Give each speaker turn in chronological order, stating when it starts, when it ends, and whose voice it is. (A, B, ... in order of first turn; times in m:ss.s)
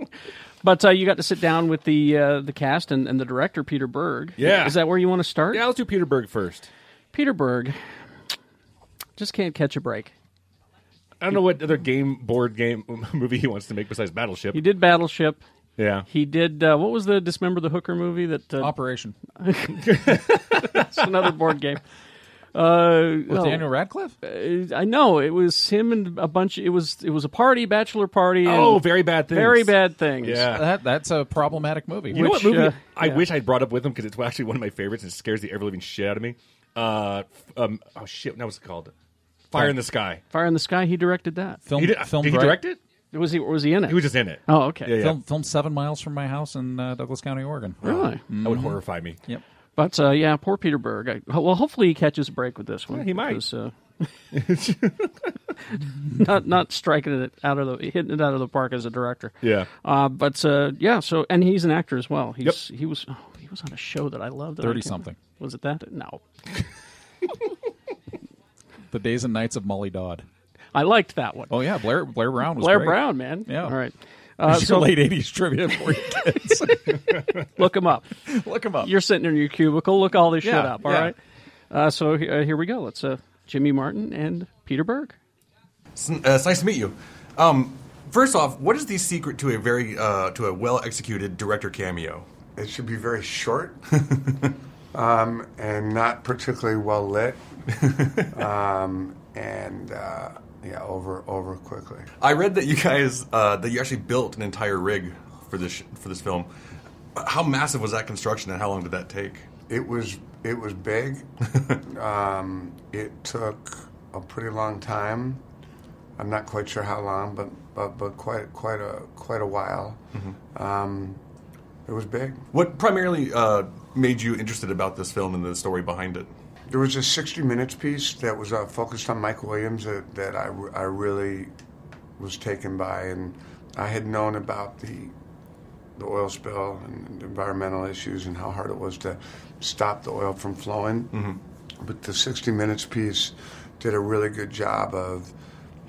0:00.6-0:05.6 A
0:04.4-0:04.9 B
0:05.5-0:06.7 B
0:07.1-0:07.8 A
0:09.2-0:10.1 A
0:11.2-0:14.6 B
0:14.5-0:15.4 A
0:15.8-0:16.1 B
0:16.1-0:18.8 A
0:18.6-0:19.2 C
0:19.4-0:21.8 A
0:20.0-0:20.7 B
0:22.5-0:23.7 A
0:23.3-0:24.2 C
0:24.2-0:30.5 A
0:28.4-0:30.7 B
0:30.4-0:32.3 C
0:32.1-0:38.9 B
0:32.1-0:33.2 A
0:39.5-0:40.2 B
0:40.3-0:41.6 A
0:41.7-0:42.6 C
0:41.8-0:42.8 B
0:43.1-0:44.9 A
0:43.9-0:45.2 B
0:45.0-0:49.4 C
0:47.8-0:48.2 A
0:47.8-0:49.2 B
0:49.8-0:54.1 A
0:52.9-0:53.4 B
0:54.3-0:55.1 B
0:56.2-1:06.2 A
0:59.4-0:59.7 B
1:04.6-1:05.2 C
1:08.9-1:10.3 C
1:10.7-1:11.5 A
1:11.5-1:13.8 C
1:12.6-1:15.1 A
1:14.4-1:17.2 C
1:17.5-1:18.1 A
1:18.3-1:18.9 C
1:18.8-1:21.2 A
1:20.4-1:21.1 C
1:21.7-1:25.2 A
1:26.0-1:32.3 D
1:32.6-1:33.8 E
1:34.1-1:34.5 D
1:34.9-1:37.4 E
1:37.8-1:38.3 D
1:38.3-1:42.1 E
1:42.2-1:46.5 D
1:47.2-1:49.5 D
1:49.7-1:51.2 E
1:51.9-1:55.4 E
1:56.2-2:01.2 E
2:01.9-2:02.4 E
2:02.5-2:06.3 D
2:06.7-2:11.5 E
2:12.2-2:15.1 E
2:16.0-2:21.1 E
2:21.1-2:21.4 D
2:21.8-2:25.3 E